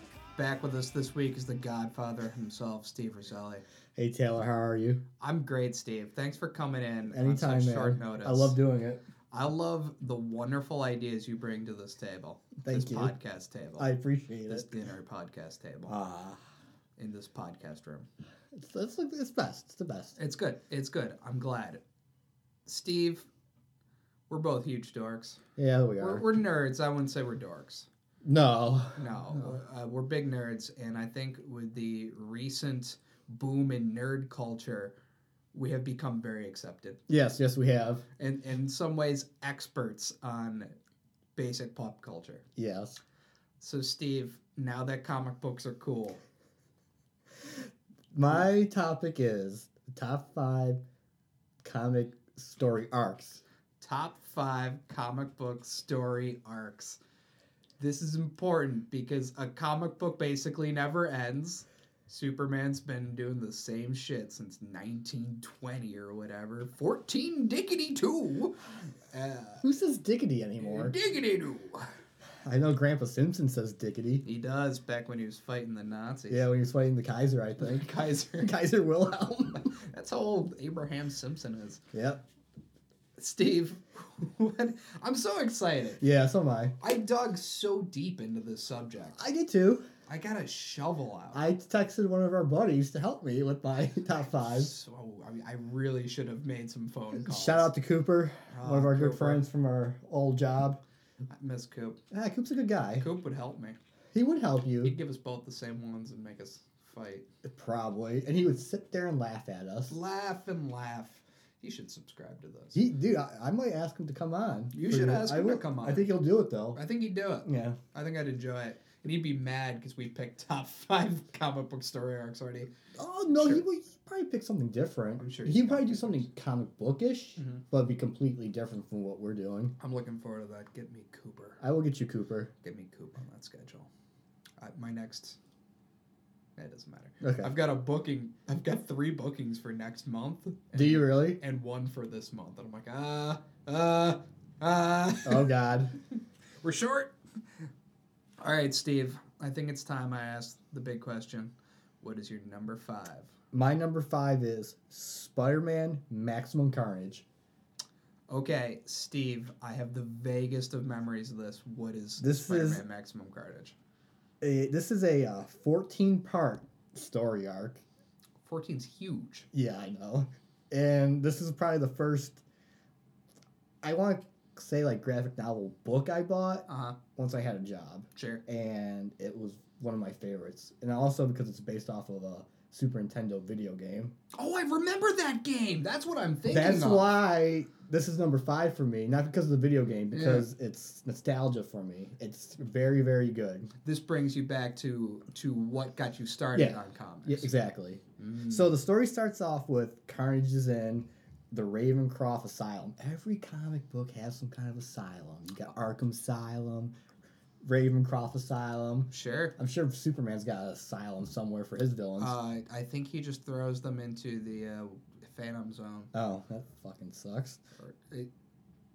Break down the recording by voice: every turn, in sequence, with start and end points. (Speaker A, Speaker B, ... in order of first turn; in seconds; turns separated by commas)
Speaker A: 0.3-3.6, Speaker B: 4.0-5.0, Speaker A: 5.2-8.6, Speaker B: 7.1-9.0, Speaker A: 9.3-13.9, Speaker B: 12.6-13.1, Speaker B: 13.8-14.7, Speaker A: 14.5-16.0, Speaker B: 15.9-16.4, Speaker A: 17.0-18.1, Speaker B: 18.5-20.1, Speaker A: 20.2-21.8, Speaker A: 22.6-23.3, Speaker A: 24.3-25.4, Speaker B: 25.6-26.2, Speaker A: 26.0-27.9, Speaker B: 28.2-29.6, Speaker A: 29.0-34.9, Speaker A: 35.5-37.0, Speaker B: 37.1-38.0, Speaker A: 38.2-40.7, Speaker A: 41.4-42.4, Speaker B: 42.5-43.0, Speaker A: 43.6-46.2, Speaker B: 47.4-50.8, Speaker B: 51.6-53.4, Speaker A: 53.8-57.0, Speaker A: 57.8-69.6, Speaker B: 69.6-70.9, Speaker A: 70.6-71.9, Speaker B: 72.4-74.2, Speaker A: 74.2-76.5, Speaker B: 76.3-79.7, Speaker A: 77.6-78.5, Speaker A: 79.5-81.8, Speaker B: 81.9-82.2, Speaker A: 83.2-86.0, Speaker B: 86.0-86.8, Speaker A: 86.8-89.2, Speaker B: 89.2-89.8, Speaker A: 90.1-91.4, Speaker B: 91.3-94.7, Speaker A: 94.3-97.7, Speaker B: 97.1-100.8, Speaker A: 98.5-99.4, Speaker A: 101.3-102.0, Speaker B: 102.1-103.0, Speaker A: 103.0-103.8, Speaker B: 104.1-104.9, Speaker A: 104.8-107.2, Speaker B: 107.4-110.0, Speaker A: 109.9-112.8, Speaker B: 112.7-116.8, Speaker A: 114.7-116.1, Speaker A: 116.7-122.7, Speaker B: 117.4-117.8, Speaker B: 123.0-129.7, Speaker A: 123.4-123.6, Speaker A: 125.2-126.3, Speaker A: 127.4-127.6, Speaker A: 129.8-131.6, Speaker B: 131.6-132.5, Speaker A: 132.6-133.9, Speaker A: 134.6-135.4, Speaker A: 136.6-145.5, Speaker B: 137.2-137.5, Speaker B: 140.7-141.4, Speaker B: 145.2-145.9, Speaker A: 146.6-147.1, Speaker A: 148.4-153.3, Speaker B: 153.5-157.2, Speaker A: 158.3-163.7, Speaker B: 162.2-162.8, Speaker B: 164.4-167.8, Speaker A: 168.4-169.5, Speaker B: 169.5-172.4, Speaker B: 173.8-184.1, Speaker A: 176.7-176.9, Speaker A: 178.1-178.4, Speaker A: 184.3-187.1, Speaker B: 186.5-193.7, Speaker A: 190.1-190.5, Speaker A: 193.8-197.5, Speaker B: 196.5-206.9, Speaker A: 198.2-198.7, Speaker B: 207.6-212.3, Speaker A: 209.1-209.5, Speaker A: 212.2-216.1, Speaker B: 216.1-217.6, Speaker A: 217.8-218.3